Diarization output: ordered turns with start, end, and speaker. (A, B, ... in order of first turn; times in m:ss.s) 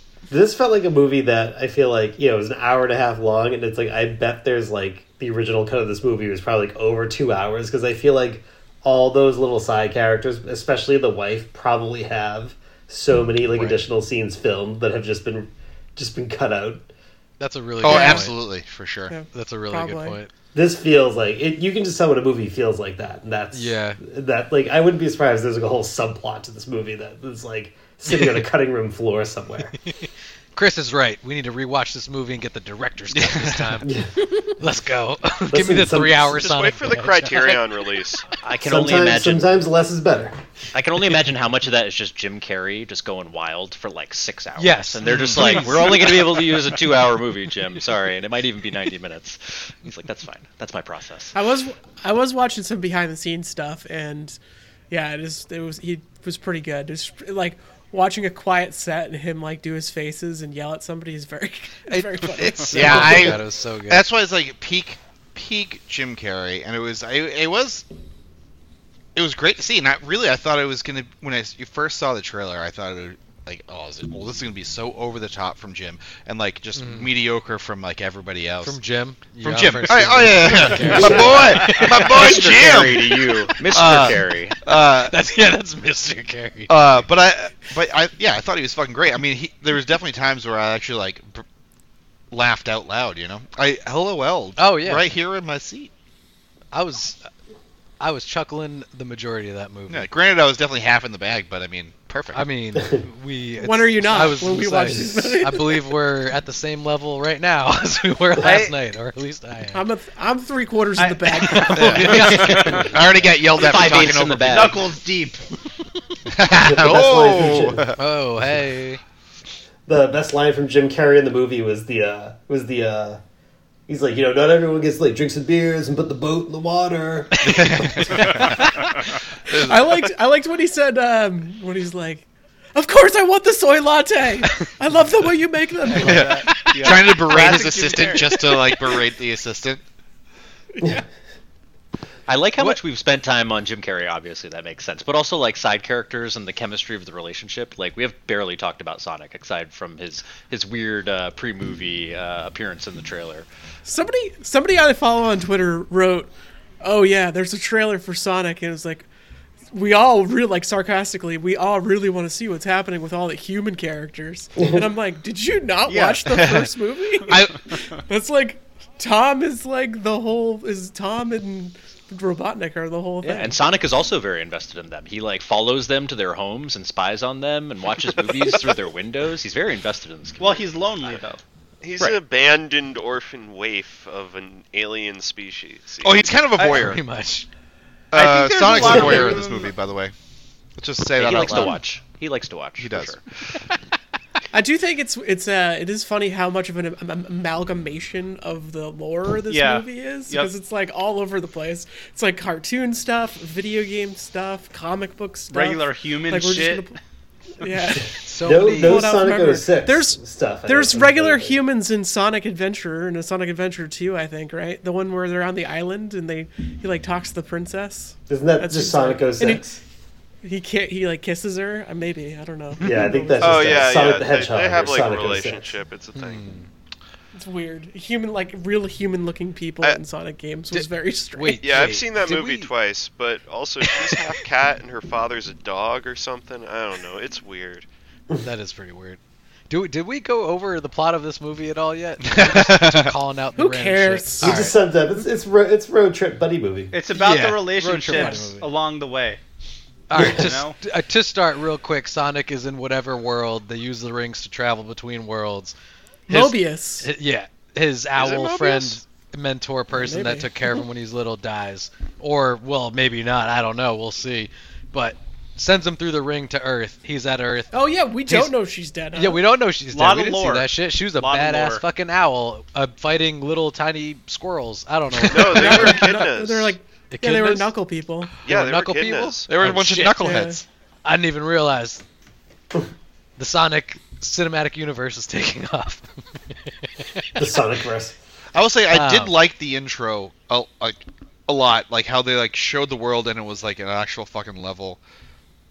0:00.3-0:16.9 A
0:13.5-0:13.8 B
0:17.4-0:18.4 B
0:17.8-0:19.2 C
0:17.8-0:18.3 D
0:19.1-0:20.2 D
0:19.3-0:20.3 B
0:20.5-0:29.7 A
0:23.5-0:24.0 B
0:28.1-0:28.4 B
0:29.8-0:37.6 B
0:33.2-0:33.8 C
0:33.8-0:34.4 A
0:35.5-0:36.4 A
0:36.2-0:38.3 E
0:38.4-0:39.5 F
0:38.6-0:40.4 A
0:40.7-0:51.4 F
0:44.6-0:46.4 B
0:45.1-0:45.4 C
0:51.3-0:54.4 D
0:54.9-1:03.3 D
1:01.9-1:04.1 B
1:02.4-1:07.8 C
1:09.2-1:18.8 C
1:16.8-1:17.1 B
1:18.6-1:22.8 B
1:19.4-1:25.2 C
1:21.7-1:24.6 F
1:24.9-1:27.0 B
1:26.7-1:31.4 C
1:32.3-1:35.9 C
1:34.6-1:35.1 B
1:36.7-1:37.3 B
1:38.0-1:40.1 B
1:39.9-1:42.5 C
1:42.3-1:49.8 B
1:42.8-1:43.0 A
1:43.6-1:45.9 D
1:48.4-1:48.8 G
1:49.7-1:52.1 D
1:51.0-1:52.9 G
1:51.4-1:52.9 B
1:51.8-1:54.8 C
1:52.1-1:52.9 F
1:53.5-1:54.8 F
1:54.5-1:55.4 G
1:56.3-1:58.0 C
1:56.5-1:57.9 A
1:58.0-1:59.0 B
1:59.9-2:03.2 A
2:03.9-2:08.1 A
2:07.4-2:08.7 B
2:07.4-2:08.7 C
2:09.5-2:10.0 C
2:09.5-2:16.3 D
2:16.0-2:19.8 C
2:16.0-2:18.7 G
2:16.2-2:17.0 B
2:22.3-2:33.5 F
2:33.8-2:39.1 D
2:39.7-2:47.4 D
2:45.9-2:46.3 G
2:46.3-2:46.7 C
2:47.3-2:47.7 C
2:48.0-2:53.6 D
2:53.2-3:01.2 F
3:00.4-3:01.4 G
3:01.8-3:06.5 E
3:06.0-3:07.0 C
3:06.6-3:07.5 B
3:08.1-3:10.1 C
3:08.1-3:09.8 G
3:10.8-3:11.8 C
3:11.2-3:13.2 F
3:12.8-3:13.2 C
3:14.5-3:27.0 D
3:19.5-3:20.5 G
3:25.5-3:26.9 G
3:27.6-3:39.8 D
3:28.2-3:29.2 B
3:28.4-3:31.6 A
3:38.3-3:39.8 A
3:40.4-3:44.0 D
3:42.8-3:43.0 B
3:42.8-3:45.7 A
3:43.4-3:46.5 E
3:46.2-3:46.7 B
3:47.4-3:51.6 D
3:50.7-3:52.7 B
3:51.6-3:57.9 E
3:53.9-3:54.2 B
3:58.4-3:59.2 B
3:59.7-4:04.8 B
4:02.2-4:03.1 C
4:03.6-4:04.7 D
4:04.4-4:06.9 A
4:06.9-4:09.4 G
4:07.1-4:08.7 B
4:08.1-4:08.5 D
4:10.1-4:15.8 B
4:10.2-4:10.5 A
4:10.3-4:10.8 G
4:16.3-4:17.1 D
4:16.3-4:27.8 B
4:19.9-4:20.8 D
4:27.7-4:29.4 D
4:28.3-4:28.5 B
4:29.1-4:36.2 B
4:29.9-4:31.8 G
4:35.2-4:36.8 E
4:35.3-4:38.3 D
4:37.1-4:37.7 B
4:38.4-4:40.4 B
4:38.4-4:39.5 E
4:39.5-4:40.6 C
4:40.2-4:40.6 D
4:41.0-4:42.0 B
4:43.4-4:47.5 B
4:47.4-4:48.2 A
4:48.5-4:55.0 C
4:48.9-4:49.4 B